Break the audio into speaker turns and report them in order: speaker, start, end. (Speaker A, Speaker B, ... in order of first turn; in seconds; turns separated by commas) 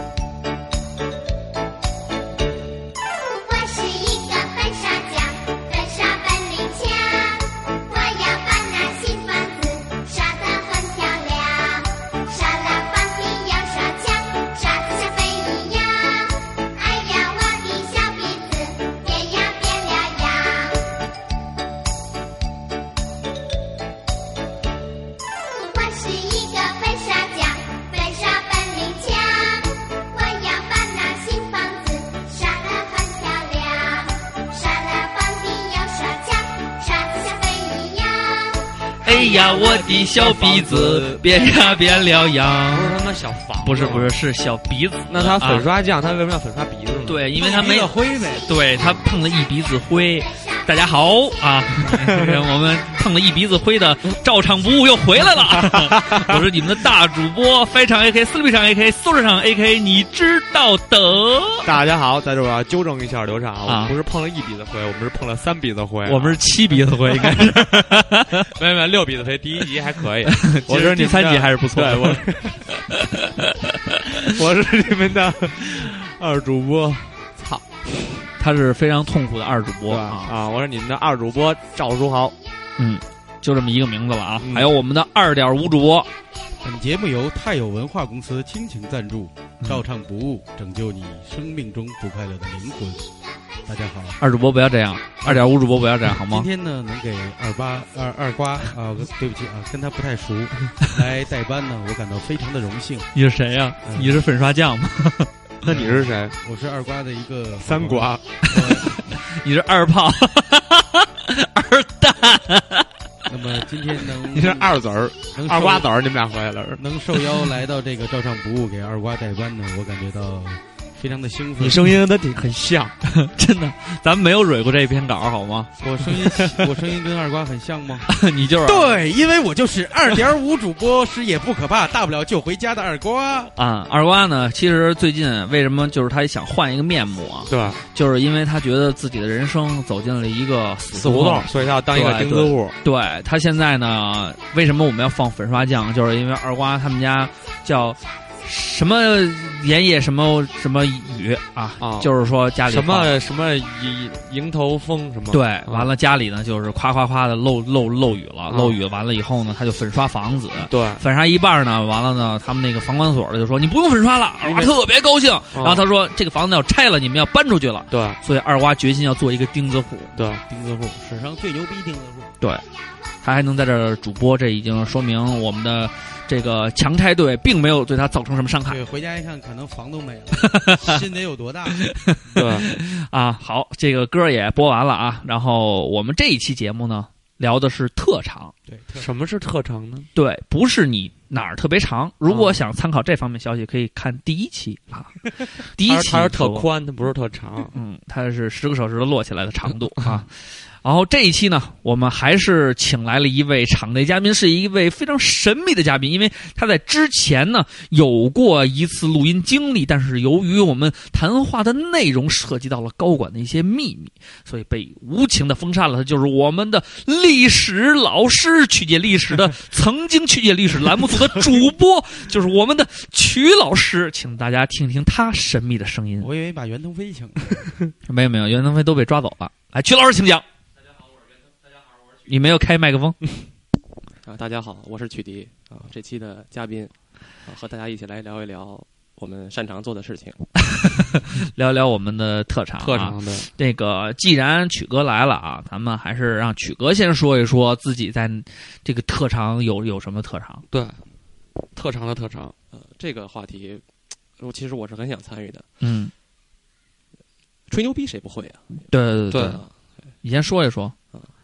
Speaker A: 3.4-20.8, Speaker A: 25.6-38.6, Speaker B: 39.0-43.0, Speaker C: 39.1-41.2, Speaker C: 42.7-44.1, Speaker B: 43.6-45.7, Speaker C: 45.1-47.2, Speaker B: 47.0-61.7, Speaker D: 47.3-48.4, Speaker A: 48.3-52.0, Speaker C: 51.9-52.3, Speaker C: 55.4-56.4, Speaker C: 61.6-66.4, Speaker B: 63.6-64.0, Speaker B: 66.0-68.5, Speaker C: 67.1-67.6, Speaker C: 68.5-72.7, Speaker B: 70.3-72.3, Speaker C: 74.2-78.2, Speaker B: 78.4-80.3, Speaker C: 79.9-82.3, Speaker B: 82.8-86.1, Speaker C: 84.4-84.7, Speaker D: 86.6-93.1, Speaker D: 93.7-94.2, Speaker B: 94.2-96.5, Speaker D: 95.2-95.5, Speaker D: 96.1-103.1, Speaker B: 103.2-105.3, Speaker D: 103.8-104.2, Speaker C: 105.6-106.3, Speaker D: 105.7-109.1, Speaker C: 107.6-108.2, Speaker B: 108.5-112.9, Speaker D: 113.3-114.8, Speaker C: 114.3-116.8, Speaker D: 115.3-115.9, Speaker D: 116.8-122.0, Speaker C: 121.6-122.9, Speaker B: 123.0-125.7, Speaker D: 125.8-128.1, Speaker C: 126.3-126.7, Speaker B: 128.1-129.0, Speaker D: 128.6-133.5, Speaker B: 133.6-153.2, Speaker C: 137.5-137.8, Speaker C: 140.9-142.8, Speaker C: 151.8-152.1, Speaker C: 152.7-155.9, Speaker B: 155.3-170.1, Speaker C: 158.5-158.8, Speaker C: 160.7-161.0, Speaker C: 164.4-164.7, Speaker C: 165.5-165.8, Speaker C: 167.9-168.2, Speaker C: 170.2-170.4, Speaker D: 170.5-172.3, Speaker B: 173.2-178.8, Speaker D: 178.7-181.9, Speaker B: 180.5-181.0, Speaker B: 181.9-188.5, Speaker C: 182.3-182.7, Speaker D: 188.7-189.1, Speaker C: 189.0-190.1, Speaker B: 190.2-196.7, Speaker C: 192.3-192.6, Speaker C: 195.8-197.7, Speaker B: 197.7-226.3, Speaker D: 226.2-227.6, Speaker B: 228.1-230.4, Speaker B: 232.2-233.2, Speaker E: 234.2-236.9, Speaker E: 237.4-240.4, Speaker B: 240.7-250.6, Speaker C: 242.8-243.5, Speaker C: 250.7-251.0, Speaker C: 251.8-252.5, Speaker E: 252.7-253.8, Speaker E: 254.4-255.7, Speaker B: 255.8-256.1, Speaker E: 257.7-258.6, Speaker B: 258.9-259.6, Speaker C: 259.3-259.6, Speaker E: 259.4-259.7, Speaker B: 260.2-260.9